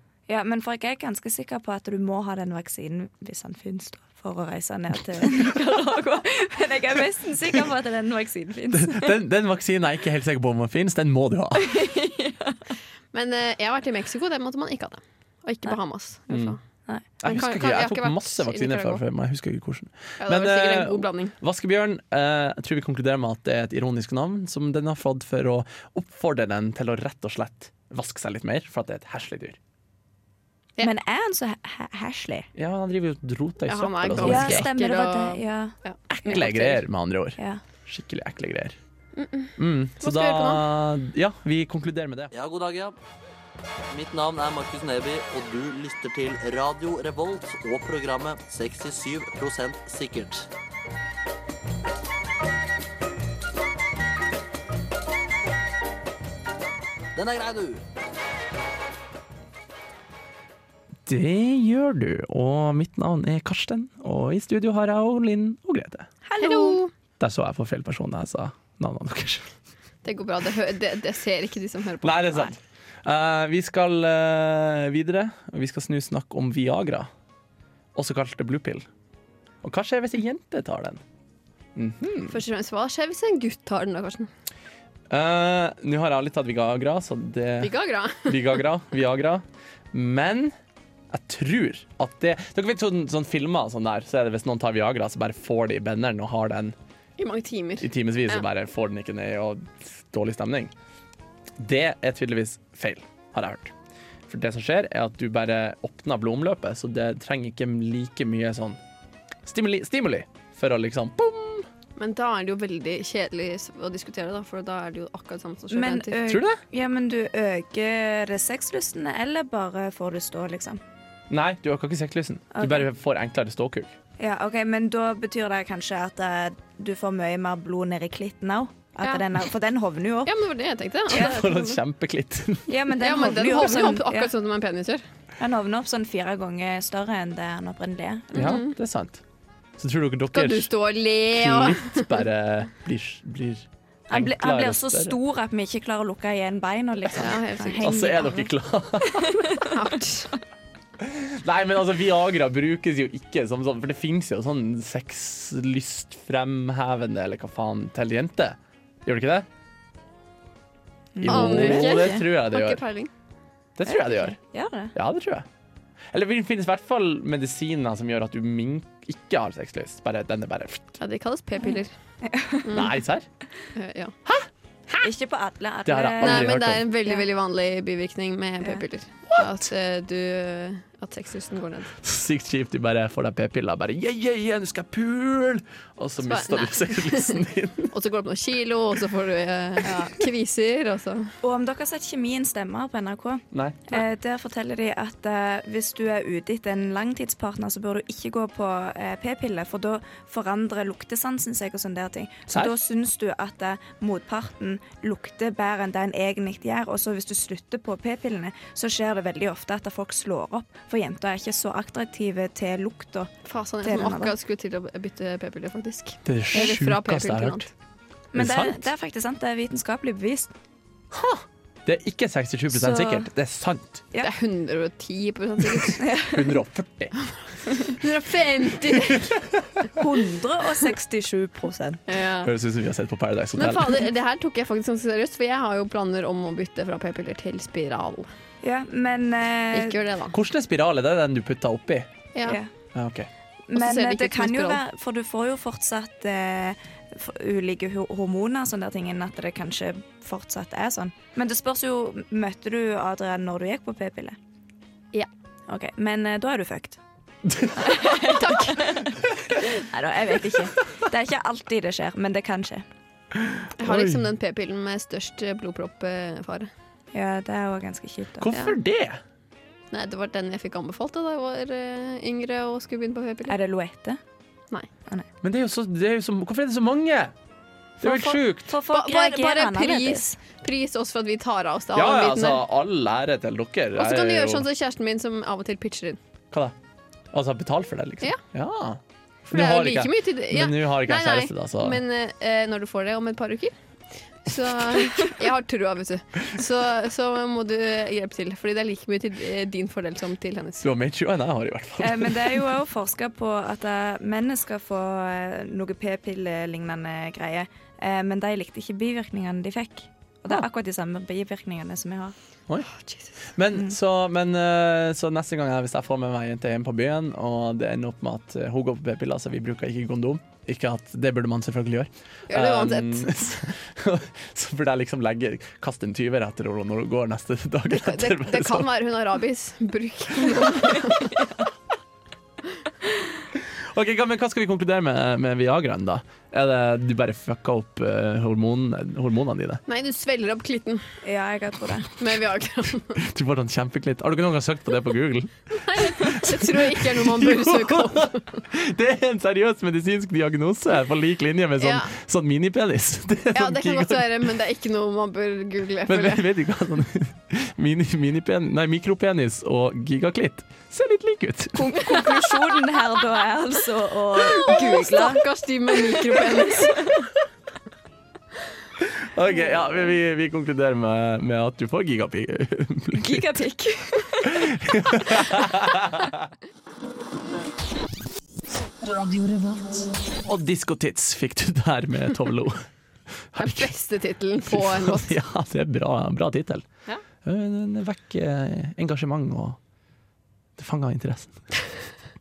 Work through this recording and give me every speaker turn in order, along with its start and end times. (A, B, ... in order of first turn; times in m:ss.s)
0:00.3-0:09.2 A
0:08.7-0:11.8 B
0:11.6-0:12.6 A
0:13.1-0:16.6 C
0:16.3-0:16.6 B
0:17.2-0:29.6 B
0:17.2-0:19.0 C
0:20.2-0:21.3 C
0:30.8-0:32.5 A
0:32.6-0:34.7 B
0:33.7-0:36.7 C
0:34.2-0:36.8 A
0:36.1-0:38.8 B
0:37.4-0:37.6 A
0:39.2-0:40.6 C
0:39.6-0:42.3 B
0:42.3-0:43.0 D
0:43.9-0:50.5 D
0:57.2-0:57.8 D
1:01.1-1:06.1 B
1:06.2-1:06.8 A
1:06.4-1:06.9 C
1:07.2-1:09.5 B
1:10.0-1:12.5 C
1:12.0-1:17.1 B
1:18.0-1:18.9 B
1:19.6-1:21.0 B
1:21.8-1:22.4 B
1:22.3-1:24.3 C
1:25.1-1:30.5 B
1:27.6-1:28.6 C
1:31.1-1:36.8 B
1:37.2-1:38.4 C
1:37.8-1:40.7 B
1:41.6-1:43.7 B
1:44.3-1:48.8 B
1:49.5-1:51.7 B
1:52.0-1:56.2 C
1:55.7-2:00.8 A
1:56.3-1:56.6 B
2:01.3-2:04.0 B
2:02.5-2:02.9 A
2:04.2-2:10.3 A
2:10.3-2:11.8 C
2:11.1-2:12.7 B
2:12.7-2:14.3 A
2:13.0-2:15.0 C
2:15.4-2:18.6 A
2:18.3-2:18.7 C
2:18.3-2:19.2 B
2:19.8-2:20.7 B
2:20.3-2:22.2 C
2:21.3-2:25.2 B
2:24.1-2:28.5 A
2:27.2-2:28.0 C
2:27.8-2:29.6 B
2:29.0-2:29.7 A
2:29.7-2:30.3 C
2:31.0-2:39.5 B
2:41.2-2:42.2 A
2:41.2-2:42.8 B
2:41.2-2:43.1 C
2:43.8-2:44.4 B
2:43.8-2:44.9 A
2:44.9-2:45.5 B
2:46.1-2:51.0 B
2:51.0-2:51.9 C
2:51.6-2:52.7 A
2:52.6-2:53.0 C
2:52.7-2:53.3 B
2:53.8-2:54.2 C
2:54.3-2:55.1 B
2:55.0-2:57.2 A
2:55.9-2:56.8 B
2:56.2-3:02.0 C
2:59.3-2:59.7 B
3:02.0-3:07.9 B
3:06.2-3:11.4 C
3:09.8-3:10.2 A
3:11.4-3:33.3 A
3:13.5-3:13.9 B
3:33.4-3:37.7 C
3:33.8-3:34.3 A
3:36.2-3:37.7 B
3:38.3-3:40.5 A
3:38.4-3:38.9 B
3:41.1-3:44.0 B
3:42.7-3:43.3 A
3:44.2-3:46.0 C
3:45.8-3:47.2 B
3:46.0-3:46.4 A
3:47.6-3:49.3 C
3:48.9-3:49.9 B
3:49.9-3:52.0 A
3:52.1-3:52.5 C
3:52.4-3:54.0 B
3:53.6-3:58.3 C
3:58.6-4:00.0 A
3:59.7-4:00.4 C
4:00.3-4:02.1 B
4:02.4-4:02.7 A
4:02.9-4:03.3 B
4:03.7-4:14.4 A
4:03.8-4:04.8 C
4:15.7-4:17.0 A
4:17.4-4:18.1 B
4:17.8-4:22.8 A
4:18.3-4:19.0 C
4:23.4-4:24.3 B
4:23.8-4:26.7 C
4:27.1-4:28.5 A
4:28.4-4:29.2 B
4:28.5-4:28.8 C
4:29.9-4:33.6 C
4:33.5-4:34.2 A
4:35.4-4:37.3 B
4:38.0-4:38.7 B
4:38.0-4:42.6 C
4:38.7-4:40.4 A
4:41.9-4:44.7 B
4:44.0-4:46.2 C
4:47.3-4:52.0 B
4:49.5-4:53.7 C
4:54.4-5:00.9 C
5:00.8-5:02.7 B
5:02.0-5:12.4 A
5:12.9-5:13.3 C
5:13.5-5:28.9 B
5:22.5-5:23.6 C
5:27.9-5:31.5 C
5:33.5-5:39.8 B
5:39.9-5:41.0 C
5:41.2-5:42.2 A
5:42.2-5:43.2 C
5:43.2-5:54.4 B
5:45.8-5:48.6 C
5:51.8-5:52.1 C
5:53.5-5:56.4 C
5:56.1-6:02.1 B
6:01.8-6:07.2 A
6:02.3-6:02.6 C
6:04.4-6:07.2 C
6:09.0-6:13.5 B
6:13.1-6:16.0 A
6:14.4-6:16.5 B
6:20.4-6:22.9 B
6:23.5-6:23.9 B
6:23.6-6:25.4 C
6:24.7-6:26.9 B
6:27.4-6:29.8 B
6:30.8-6:31.6 B